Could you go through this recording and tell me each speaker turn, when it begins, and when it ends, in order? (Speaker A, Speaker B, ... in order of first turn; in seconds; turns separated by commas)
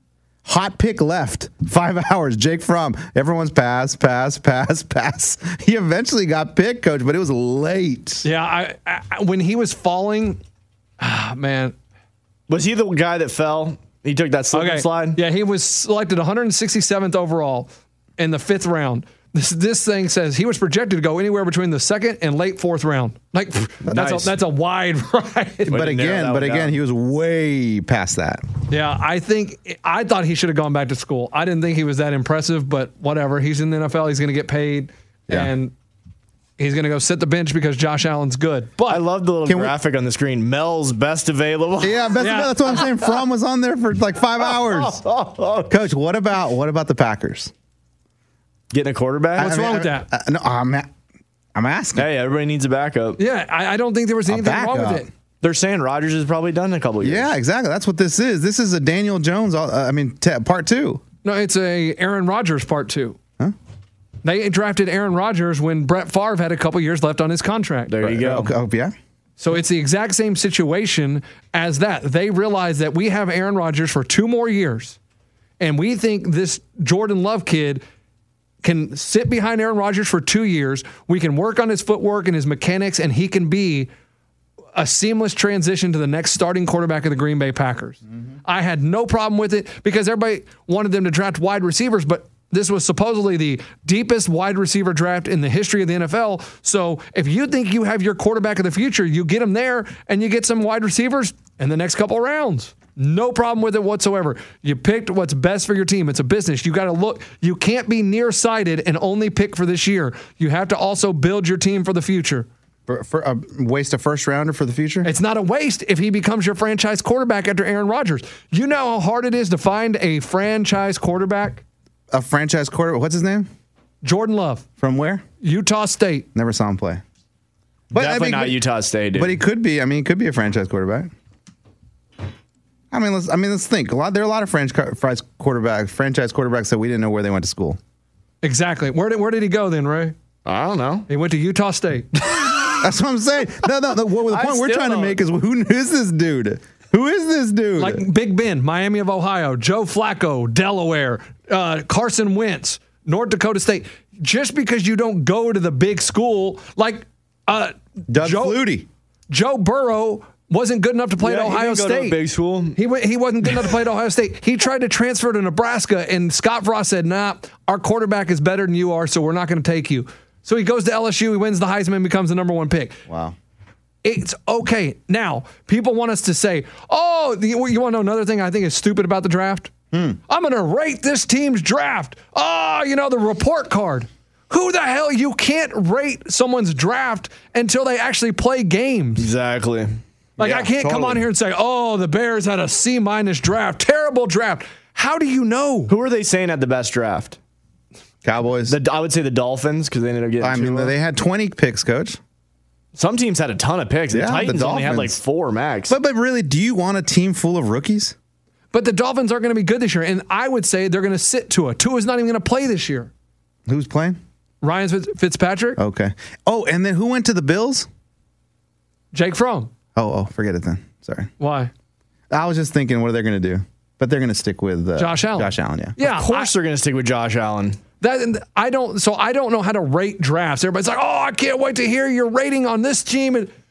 Speaker A: 0.4-8.2, Speaker B: 8.2-10.4, Speaker B: 11.0-11.7, Speaker C: 12.5-15.2, Speaker B: 14.5-25.7, Speaker C: 23.9-24.3, Speaker C: 25.7-26.7, Speaker A: 25.7-28.4, Speaker B: 28.7-35.7, Speaker B: 36.6-39.0, Speaker C: 38.9-42.1, Speaker A: 39.5-39.7, Speaker A: 41.8-45.0, Speaker B: 42.2-42.7, Speaker C: 44.4-45.8, Speaker A: 45.7-47.5, Speaker C: 48.7-49.5, Speaker A: 49.4-50.9, Speaker B: 49.4-50.1, Speaker A: 51.5-52.1, Speaker C: 52.0-53.2, Speaker B: 53.2-55.1, Speaker A: 54.3-55.1, Speaker C: 55.4-57.3, Speaker A: 57.0-61.0, Speaker B: 61.2-63.2, Speaker B: 64.2-67.9, Speaker C: 67.9-68.5, Speaker A: 68.0-68.9, Speaker B: 69.4-75.0, Speaker B: 75.6-77.8, Speaker B: 78.6-83.9, Speaker B: 84.7-112.5, Speaker A: 112.9-115.1, Speaker B: 115.0-121.6, Speaker A: 122.1-123.5, Speaker B: 124.0-124.6, Speaker A: 124.8-125.2, Speaker B: 125.4-126.3, Speaker A: 126.3-127.0, Speaker A: 127.9-128.6, Speaker C: 127.9-129.4, Speaker A: 129.1-131.1, Speaker A: 132.9-137.8, Speaker B: 138.4-140.1, Speaker C: 140.4-141.1, Speaker B: 141.1-142.5, Speaker A: 142.8-148.0, Speaker C: 144.3-145.2, Speaker B: 147.8-158.6, Speaker A: 158.1-158.9, Speaker B: 159.3-162.2, Speaker C: 161.2-162.8, Speaker B: 162.7-173.0, Speaker A: 173.1-173.3, Speaker B: 174.0-179.7, Speaker A: 179.9-180.2, Speaker B: 180.3-189.3, Speaker C: 189.2-190.0, Speaker A: 190.4-191.2, Speaker B: 190.4-195.9, Speaker C: 195.9-197.4, Speaker A: 198.2-198.8, Speaker C: 198.7-200.9, Speaker A: 200.4-202.2, Speaker C: 202.9-205.9, Speaker A: 204.1-205.2, Speaker A: 205.9-208.1, Speaker B: 208.7-213.1, Speaker A: 213.7-214.2, Speaker B: 214.6-215.8, Speaker A: 215.8-217.9, Speaker B: 219.1-219.7, Speaker A: 219.9-221.3, Speaker B: 221.4-221.7, Speaker A: 222.3-225.9, Speaker B: 224.9-226.5, Speaker C: 226.0-227.8, Speaker B: 228.0-233.5